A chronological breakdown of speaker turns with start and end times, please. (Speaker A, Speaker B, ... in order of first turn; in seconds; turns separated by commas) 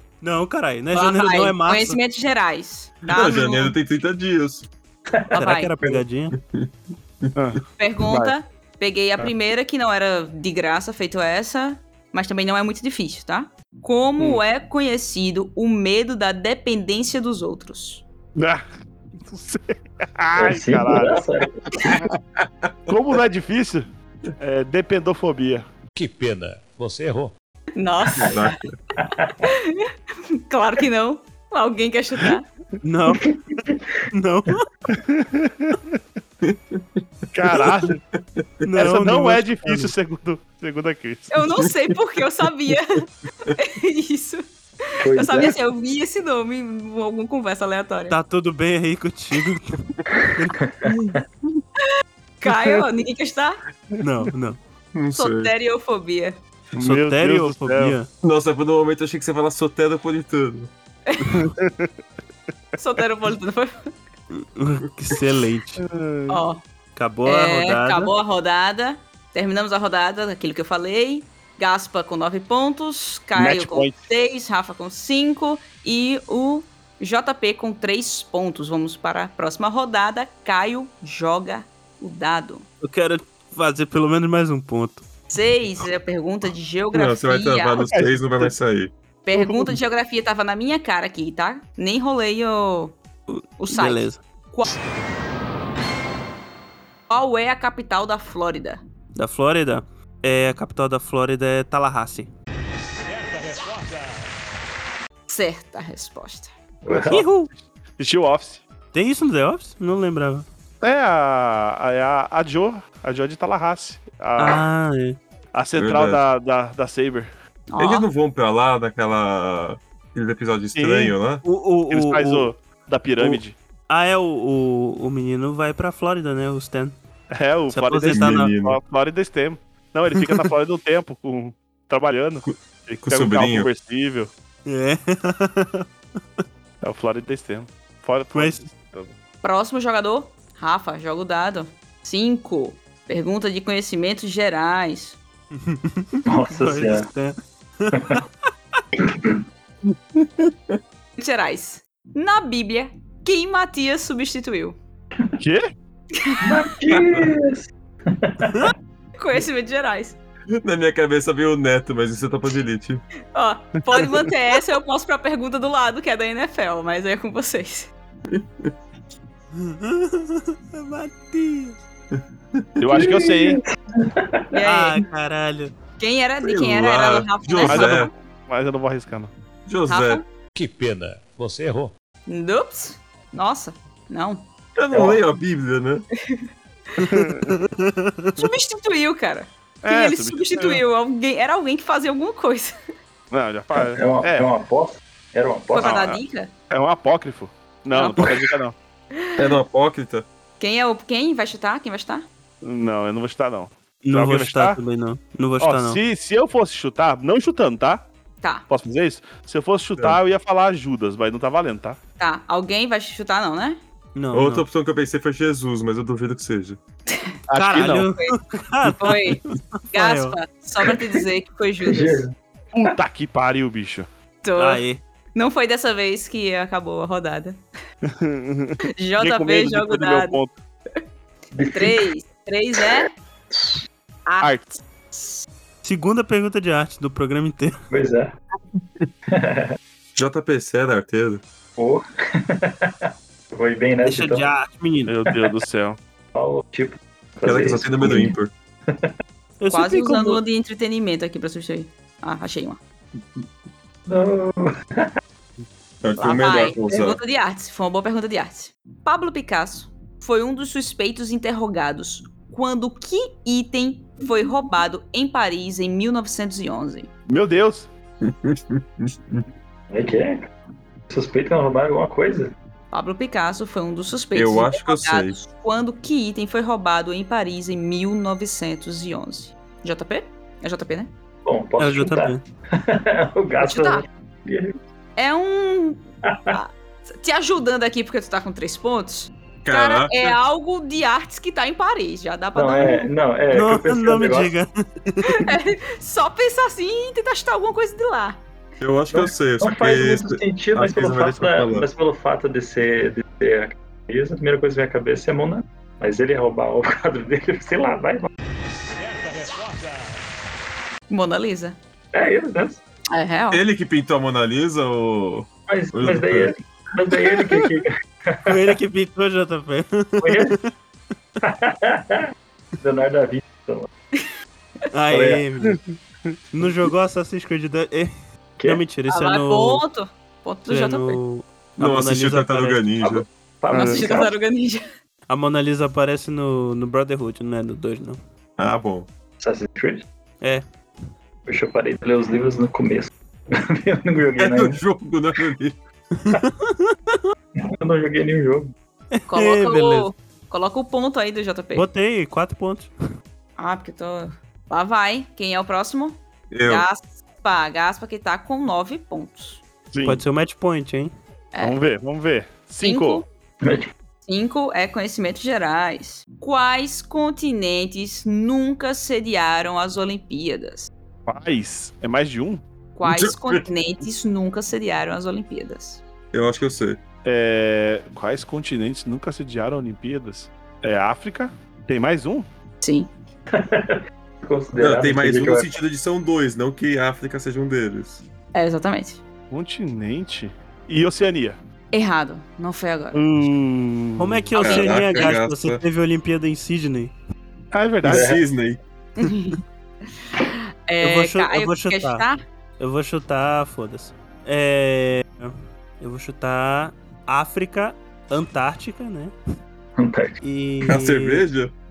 Speaker A: 0.2-2.0, Speaker B: 0.9-3.7, Speaker C: 3.1-4.7, Speaker D: 5.1-6.0, Speaker B: 5.3-5.7, Speaker A: 5.3-6.3, Speaker C: 6.4-6.7, Speaker E: 7.3-8.3, Speaker B: 7.8-18.0, Speaker E: 18.4-18.6, Speaker E: 19.2-21.3, Speaker D: 20.4-22.0, Speaker E: 21.8-22.1, Speaker C: 22.4-22.9, Speaker E: 22.9-23.9, Speaker E: 24.4-25.6, Speaker F: 25.9-27.3, Speaker B: 27.8-28.6, Speaker C: 28.2-28.7, Speaker D: 29.0-29.5, Speaker B: 29.4-29.9, Speaker B: 30.5-32.5, Speaker A: 32.8-33.3, Speaker D: 33.3-33.9, Speaker A: 34.1-34.6, Speaker E: 34.9-36.0, Speaker C: 36.4-38.4, Speaker E: 37.3-38.0, Speaker A: 38.6-39.9, Speaker E: 38.8-41.5, Speaker B: 41.3-48.1, Speaker D: 45.0-45.6, Speaker A: 48.1-49.8, Speaker A: 50.4-51.1, Speaker B: 52.4-53.6, Speaker E: 52.5-52.8, Speaker A: 54.0-54.6, Speaker C: 54.9-55.5, Speaker B: 55.1-56.4, Speaker E: 56.7-58.0, Speaker A: 56.8-58.1, Speaker C: 58.2-60.7, Speaker E: 61.5-61.9, Speaker B: 62.8-63.9, Speaker A: 64.3-65.8, Speaker E: 65.8-66.4, Speaker B: 66.3-66.6, Speaker A: 67.0-68.1, Speaker B: 67.2-82.6, Speaker E: 73.3-74.0, Speaker A: 82.8-85.1, Speaker B: 85.3-87.9, Speaker C: 86.9-88.9, Speaker E: 87.8-88.5, Speaker B: 89.2-93.0, Speaker E: 89.3-89.8, Speaker A: 93.3-94.2, Speaker B: 93.6-94.7, Speaker B: 97.1-98.8, Speaker A: 99.2-102.3, Speaker B: 105.3-106.5, Speaker D: 106.8-107.2, Speaker A: 107.0-107.5, Speaker E: 108.0-108.6, Speaker A: 108.9-110.5, Speaker E: 110.8-114.6, Speaker A: 114.4-115.2, Speaker E: 115.5-117.3, Speaker C: 115.7-116.2, Speaker B: 117.7-118.1, Speaker C: 117.8-121.4, Speaker E: 120.7-121.2, Speaker A: 121.4-122.5, Speaker E: 121.9-123.5, Speaker A: 123.9-127.0, Speaker E: 127.3-134.3, Speaker A: 127.7-128.5, Speaker C: 128.1-128.8, Speaker C: 133.0-133.7, Speaker A: 134.7-135.9, Speaker E: 136.8-139.1, Speaker A: 138.3-138.6, Speaker B: 139.4-145.2, Speaker A: 145.5-148.2, Speaker D: 146.2-147.1, Speaker D: 149.0-149.4, Speaker B: 151.2-154.8, Speaker E: 155.4-155.7, Speaker B: 156.1-156.6, Speaker D: 156.4-158.7, Speaker B: 159.2-160.2, Speaker C: 160.5-163.0, Speaker B: 163.3-167.9, Speaker C: 168.3-168.7, Speaker A: 169.5-171.8, Speaker C: 172.1-172.8, Speaker E: 172.8-173.6, Speaker D: 172.9-174.5, Speaker B: 174.5-175.0, Speaker A: 174.6-175.7, Speaker B: 176.0-178.1, Speaker C: 176.4-178.1, Speaker E: 177.6-179.3, Speaker C: 179.7-180.2, Speaker B: 179.9-180.2, Speaker F: 180.5-181.9, Speaker B: 182.3-184.5, Speaker C: 184.8-186.1, Speaker D: 184.9-185.2, Speaker B: 186.2-187.0, Speaker A: 187.0-188.4, Speaker E: 187.1-187.5, Speaker B: 188.4-192.8, Speaker E: 189.8-190.8, Speaker E: 193.3-194.5, Speaker D: 193.8-196.0, Speaker B: 195.7-196.5, Speaker E: 195.8-198.7, Speaker B: 197.9-198.3, Speaker B: 199.2-199.4, Speaker C: 199.3-200.2, Speaker B: 200.6-202.3, Speaker E: 202.6-204.8, Speaker A: 204.0-206.0, Speaker E: 205.6-208.1, Speaker E: 208.7-212.0, Speaker B: 212.2-213.8, Speaker A: 214.1-214.7, Speaker C: 214.3-216.8, Speaker B: 217.1-217.4, Speaker E: 217.5-218.1, Speaker A: 217.5-220.4, Speaker B: 218.2-219.4, Speaker B: 219.9-222.2, Speaker D: 221.8-222.3, Speaker E: 222.7-224.1, Speaker B: 224.4-224.8, Speaker A: 224.6-225.0, Speaker B: 225.3-227.6, Speaker E: 228.0-230.5, Speaker B: 228.9-230.4, Speaker D: 231.5-232.0, Speaker B: 231.7-233.1, Speaker D: 233.5-233.8, Speaker B: 234.2-235.4, Speaker E: 234.4-234.8, Speaker A: 235.8-237.8, Speaker D: 237.9-238.3, Speaker D: 239.3-239.8, Speaker C: 240.1-241.4, Speaker D: 241.8-244.4, Speaker A: 244.0-245.1, Speaker E: 245.1-246.0, Speaker D: 246.3-248.3, Speaker C: 247.4-248.5, Speaker D: 248.9-249.1, Speaker A: 249.6-250.4, Speaker B: 249.7-252.8, Speaker D: 254.1-255.1, Speaker C: 256.0-257.2, Speaker B: 256.2-267.1, Speaker E: 267.3-267.9, Speaker C: 268.2-269.1, Speaker D: 269.3-270.5, Speaker D: 271.1-272.5, Speaker B: 272.9-281.1, Speaker C: 274.3-275.4, Speaker D: 281.4-284.8, Speaker A: 281.8-282.4, Speaker B: 283.6-284.1, Speaker B: 285.1-293.1, Speaker D: 286.3-286.5, Speaker C: 289.6-290.3, Speaker D: 292.5-294.5, Speaker A: 293.5-295.5, Speaker B: 295.3-298.4, Speaker C: 298.8-301.9, Speaker D: 299.1-308.3, Speaker B: 311.1-311.8, Speaker D: 312.1-312.8, Speaker B: 313.1-313.6, Speaker C: 313.5-316.5, Speaker D: 315.7-318.6, Speaker A: 318.4-320.7, Speaker D: 320.2-320.5, Speaker D: 321.4-323.9, Speaker A: 324.9-325.9, Speaker D: 325.1-325.4, Speaker A: 326.5-328.1, Speaker A: 328.6-329.8, Speaker B: 329.1-331.2, Speaker A: 330.7-332.8, Speaker C: 331.8-333.3, Speaker D: 333.0-334.3, Speaker E: 333.7-334.0, Speaker B: 333.7-334.9, Speaker A: 335.3-338.2, Speaker C: 338.6-339.1, Speaker D: 339.4-340.0, Speaker D: 341.5-344.8, Speaker C: 344.4-345.8, Speaker A: 346.2-347.2, Speaker D: 347.6-348.7, Speaker A: 349.1-350.1, Speaker B: 349.3-351.8, Speaker A: 351.7-352.9, Speaker B: 353.6-359.6, Speaker C: 356.5-356.9, Speaker E: 359.9-360.2, Speaker A: 360.0-361.1, Speaker E: 361.6-363.2, Speaker B: 362.8-363.3, Speaker D: 363.6-363.9, Speaker B: 364.2-370.9, Speaker E: 371.3-372.6, Speaker B: 372.9-376.0, Speaker C: 373.0-373.6, Speaker C: 376.3-377.0, Speaker E: 377.2-382.5, Speaker B: 382.8-383.1, Speaker D: 383.5-385.7, Speaker C: 384.8-388.2, Speaker B: 388.5-389.2, Speaker E: 389.5-391.6, Speaker B: 391.9-393.2, Speaker E: 393.1-394.4, Speaker A: 394.2-397.1, Speaker C: 394.6-395.8, Speaker B: 394.6-395.2, Speaker E: 397.7-398.3, Speaker C: 398.0-398.8, Speaker D: 398.1-398.4, Speaker B: 399.2-399.6, Speaker B: 400.4-402.4, Speaker A: 401.0-402.2, Speaker A: 402.8-409.3, Speaker D: 410.0-410.4, Speaker A: 410.4-411.4, Speaker C: 410.8-411.7